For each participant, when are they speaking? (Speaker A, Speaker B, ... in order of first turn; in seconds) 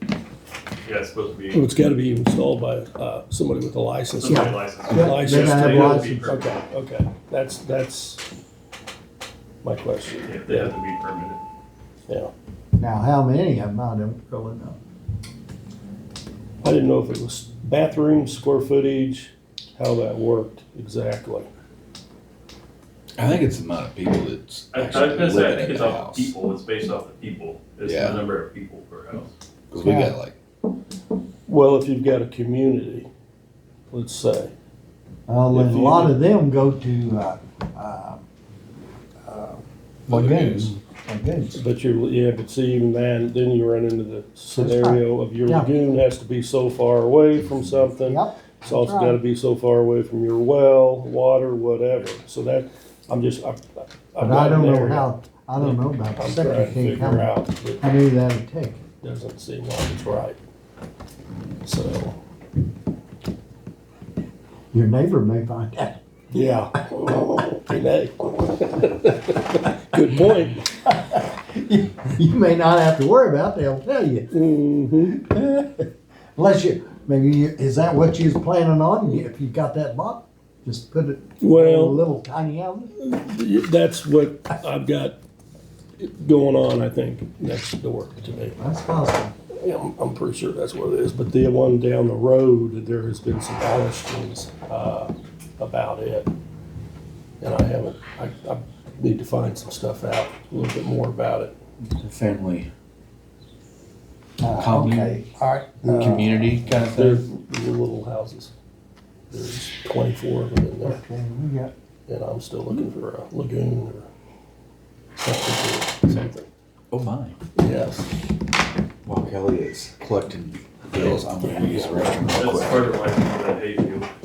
Speaker A: 0.8-1.6, 4.2-6.5, 10.2-11.4, 24.7-29.3, 122.3-124.1
Speaker B: 1.5-8.2, 9.6-10.7, 16.6-21.5, 31.4-33.1, 33.9-34.5, 35.5-36.2, 40.1-40.8, 41.5-57.8, 59.0-60.4, 61.6-62.2, 66.3-70.6, 74.3-75.2, 81.4-82.0, 83.0-85.2, 86.0-88.6, 89.5-96.3, 97.4-101.5, 105.8-106.3, 106.9-108.5, 109.3-111.0, 112.1-114.1, 115.2-116.5, 117.5-118.1, 120.9-121.9
Speaker C: 4.3-6.3, 12.8-14.8, 29.8-30.1, 35.3-38.2, 39.2-41.6, 44.5-45.7, 47.9-49.2, 54.2-58.9, 64.7-66.0, 70.7-74.3, 75.0-82.9, 88.6-89.3, 104.4-106.6, 110.8-111.7
Speaker D: 23.1-26.3, 27.8-28.2, 29.7-30.4, 101.8-102.7, 104.6-105.1, 105.9-107.2, 116.9-117.3, 119.0-123.0